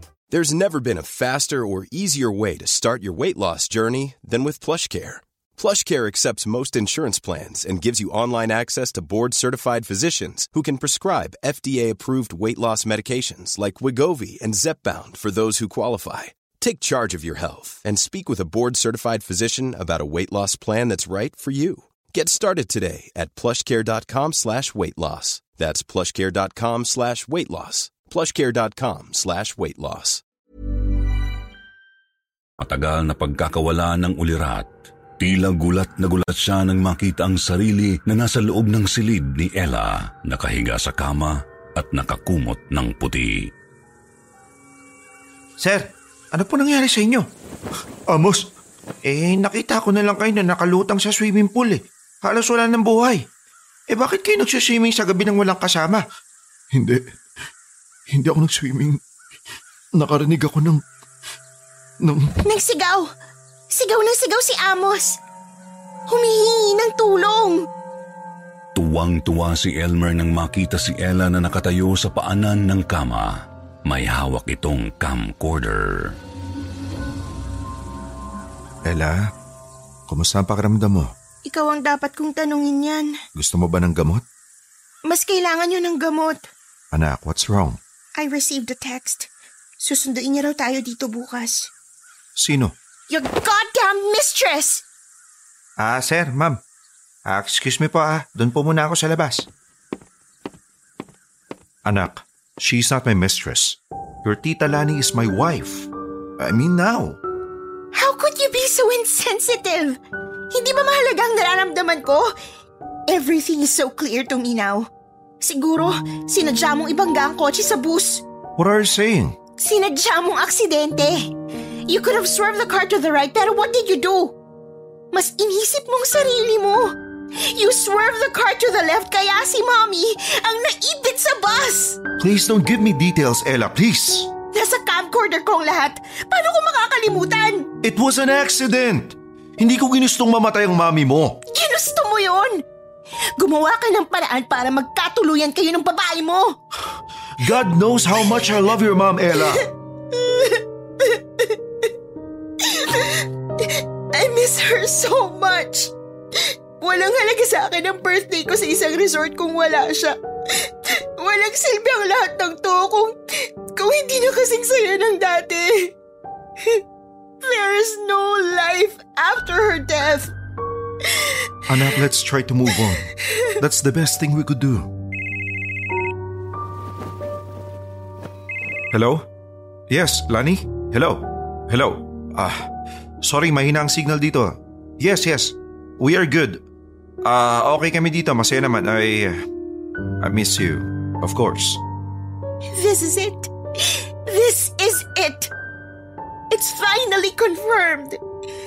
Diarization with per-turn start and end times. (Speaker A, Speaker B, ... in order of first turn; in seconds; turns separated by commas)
Speaker A: 0.3-30.2, Speaker B: 32.6-43.5, Speaker C: 45.6-47.2, Speaker D: 48.1-48.5, Speaker C: 49.0-53.2, Speaker C: 53.9-56.0, Speaker D: 56.7-57.0, Speaker D: 58.1-59.0, Speaker D: 60.0-60.8, Speaker D: 62.0-62.4, Speaker E: 62.4-63.1, Speaker E: 63.7-65.2, Speaker E: 66.1-67.6, Speaker B: 68.7-76.1, Speaker C: 78.8-79.3, Speaker C: 80.1-81.1, Speaker E: 81.5-83.1, Speaker C: 83.3-84.2, Speaker E: 85.0-86.5, Speaker C: 86.9-87.8, Speaker E: 88.2-89.3, Speaker E: 89.8-91.7, Speaker C: 92.4-92.7, Speaker E: 93.1-94.8, Speaker C: 95.8-96.6, Speaker C: 97.2-99.5, Speaker C: 101.8-107.2, Speaker E: 107.9-110.0, Speaker E: 110.5-112.3, Speaker E: 113.1-114.9, Speaker E: 115.4-118.2, Speaker C: 118.6-119.3, Speaker E: 119.6-121.3, Speaker E: 121.9-124.3, Speaker E: 125.1-132.0, Speaker C: 132.2-134.3, Speaker E: 134.5-137.7, Speaker C: 137.8-141.3, Speaker E: 141.5-142.6, Speaker E: 143.4-146.6, Speaker C: 147.4-149.6, Speaker E: 149.3-151.6, Speaker E: 152.6-165.9, Speaker E: 167.4-170.3, Speaker E: 171.1-171.3, Speaker C: 171.7-173.0, Speaker E: 173.2-173.5, Speaker C: 173.6-174.9, Speaker C: 178.9-179.2, Speaker C: 179.9-182.7, Speaker C: 183.2-186.6, Speaker C: 187.2-189.4, Speaker C: 190.2-191.8, Speaker E: 192.7-195.5, Speaker E: 196.5-198.2